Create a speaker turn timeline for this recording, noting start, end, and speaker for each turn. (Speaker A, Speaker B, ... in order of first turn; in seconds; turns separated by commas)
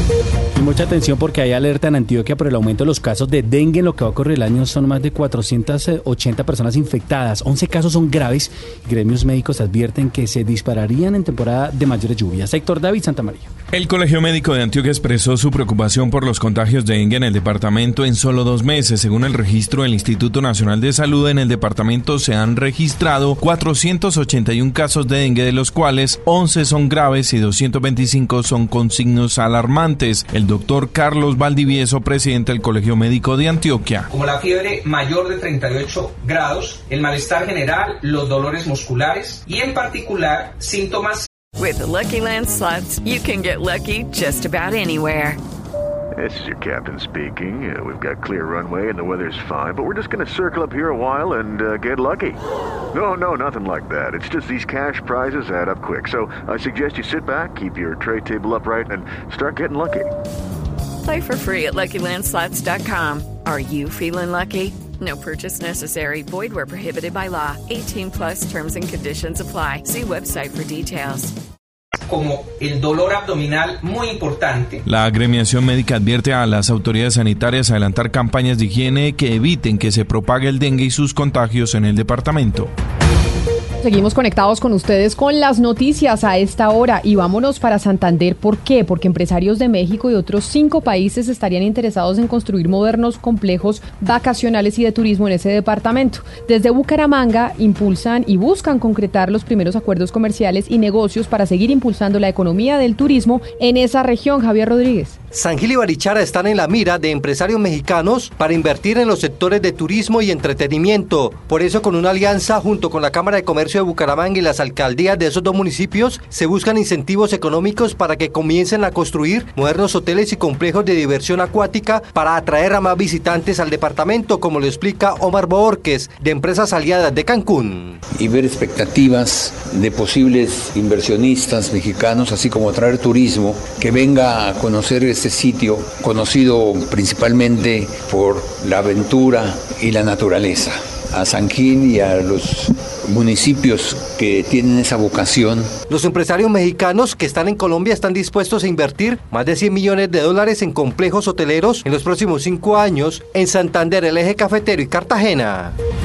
Speaker A: 0.5-13.5, Speaker B: 13.7-34.1, Speaker C: 34.1-41.2, Speaker D: 41.6-45.4, Speaker E: 46.2-52.4, Speaker E: 52.9-60.1, Speaker D: 61.0-71.3, Speaker C: 72.1-74.8, Speaker B: 74.8-82.7, Speaker F: 83.8-105.2, Speaker G: 105.3-128.0, Speaker H: 128.2-142.6, Speaker H: 143.2-145.6, Speaker G: 145.9-155.7